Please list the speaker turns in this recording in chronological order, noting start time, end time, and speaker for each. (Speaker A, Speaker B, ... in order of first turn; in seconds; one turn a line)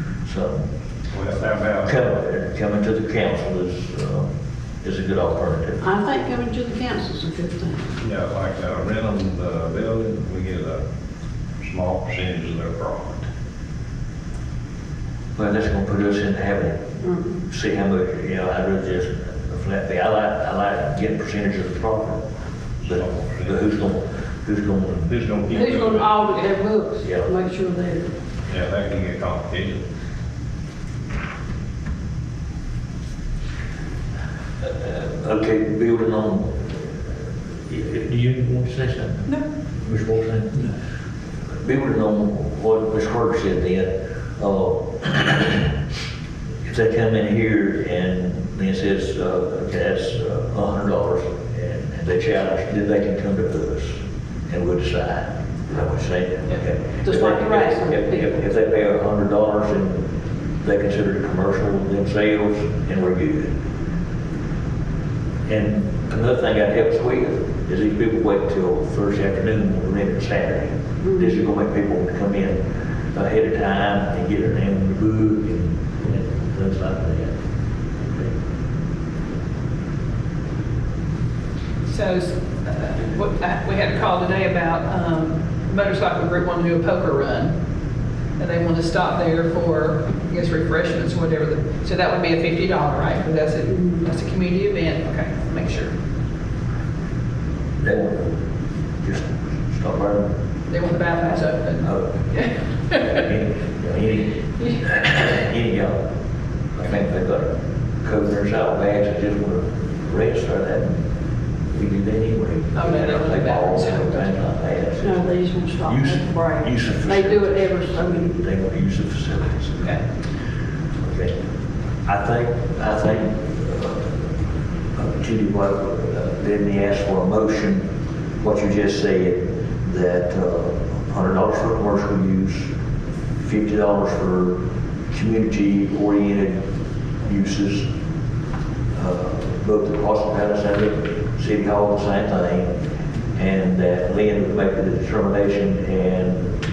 Speaker A: 0.2-0.7
Speaker B: 1.1-2.0
Speaker A: 1.8-4.3
Speaker A: 4.8-5.8
Speaker C: 5.8-7.9
Speaker B: 8.0-10.8
Speaker B: 11.6-13.3
Speaker A: 15.3-16.9
Speaker C: 17.0-17.4
Speaker A: 17.4-22.2
Speaker A: 22.8-25.1
Speaker B: 22.9-23.6
Speaker B: 25.1-26.1
Speaker C: 25.5-28.1
Speaker A: 27.0-27.3
Speaker B: 28.5-29.8
Speaker A: 34.6-36.8
Speaker A: 37.7-40.7
Speaker A: 41.6-45.7
Speaker A: 46.6-60.0
Speaker C: 57.0-58.3
Speaker A: 60.6-63.5
Speaker A: 65.5-72.6
Speaker A: 73.1-77.4
Speaker A: 78.0-78.3
Speaker D: 81.8-87.5
Speaker D: 88.4-95.9
Speaker A: 97.8-98.4
Speaker A: 99.0-100.3
Speaker D: 100.7-103.1
Speaker A: 101.8-102.2
Speaker A: 102.9-106.0
Speaker A: 106.8-111.0
Speaker A: 111.7-115.3
Speaker D: 112.7-114.3
Speaker C: 115.0-118.4
Speaker A: 115.8-119.9
Speaker A: 121.0-121.3
Speaker A: 122.0-124.2
Speaker A: 124.9-127.8
Speaker A: 128.4-132.7
Speaker A: 133.4-136.7
Speaker A: 137.2-137.9
Speaker A: 138.9-142.7
Speaker A: 143.3-146.5